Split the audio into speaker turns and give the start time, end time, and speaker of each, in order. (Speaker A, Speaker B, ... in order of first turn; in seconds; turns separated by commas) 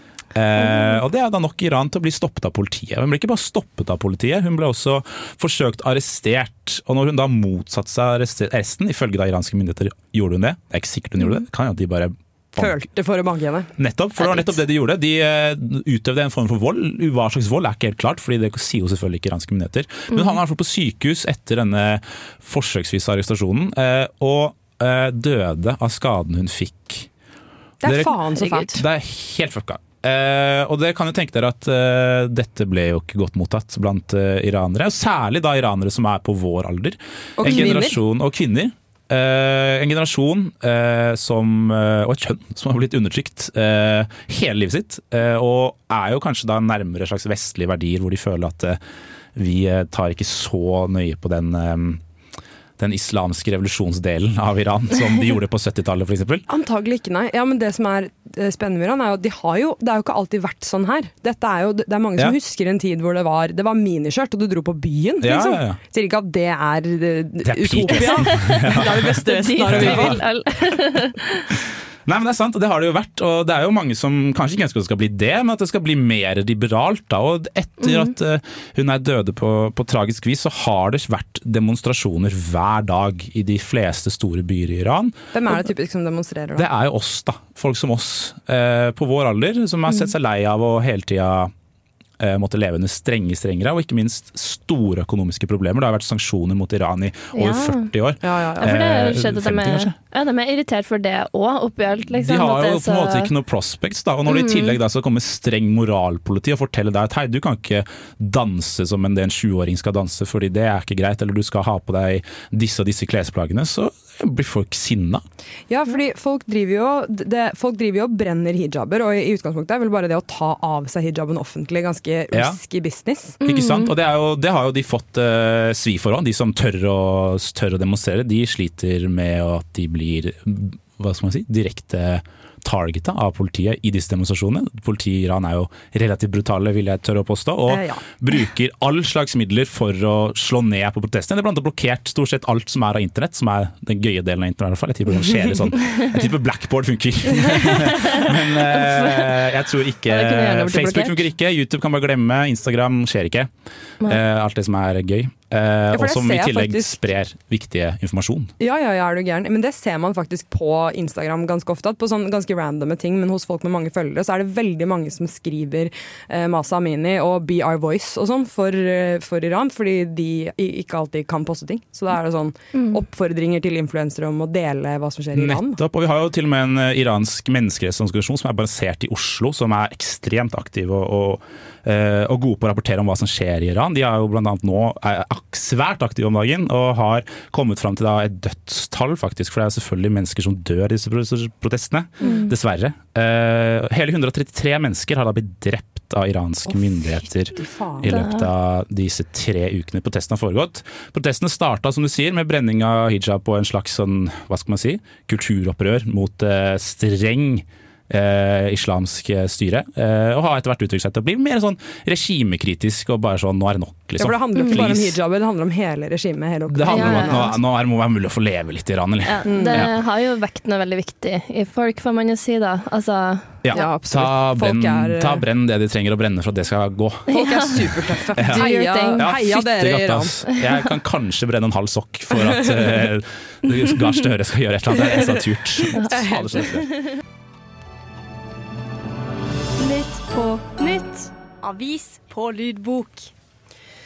Speaker A: 0.3-12.8, Speaker B: 12.6-13.7, Speaker A: 13.8-27.1, Speaker B: 27.8-28.8, Speaker A: 27.8-48.8, Speaker C: 28.4-28.7, Speaker B: 37.4-38.0, Speaker A: 49.3-52.0, Speaker A: 52.8-56.5, Speaker B: 56.5-70.2, Speaker A: 65.2-65.8, Speaker A: 67.4-69.1, Speaker C: 67.8-71.5, Speaker A: 69.7-70.2, Speaker A: 72.0-85.6, Speaker C: 77.8-78.1, Speaker B: 85.3-86.7, Speaker A: 86.5-91.5, Speaker A: 92.2-99.9, Speaker C: 97.3-97.9, Speaker B: 98.2-98.7, Speaker C: 98.6-103.3, Speaker A: 102.1-115.2, Speaker C: 104.3-104.8, Speaker B: 115.7-123.4, Speaker A: 122.3-122.6, Speaker C: 123.4-123.9, Speaker A: 123.4-153.5, Speaker B: 137.7-138.0, Speaker C: 147.7-149.4, Speaker C: 150.1-151.2, Speaker A: 154.1-158.5, Speaker B: 155.9-157.0, Speaker B: 158.6-175.8, Speaker A: 175.3-215.2, Speaker C: 192.2-192.5, Speaker B: 196.7-198.2, Speaker C: 198.1-198.5, Speaker B: 214.2-217.6, Speaker A: 216.7-219.9, Speaker C: 216.9-217.5, Speaker C: 219.2-223.6, Speaker B: 219.4-219.9, Speaker A: 223.6-236.9, Speaker B: 223.7-225.4, Speaker C: 227.3-227.8, Speaker B: 227.3-230.3, Speaker C: 228.5-229.3, Speaker B: 235.1-236.7, Speaker C: 236.9-237.2, Speaker D: 239.8-243.3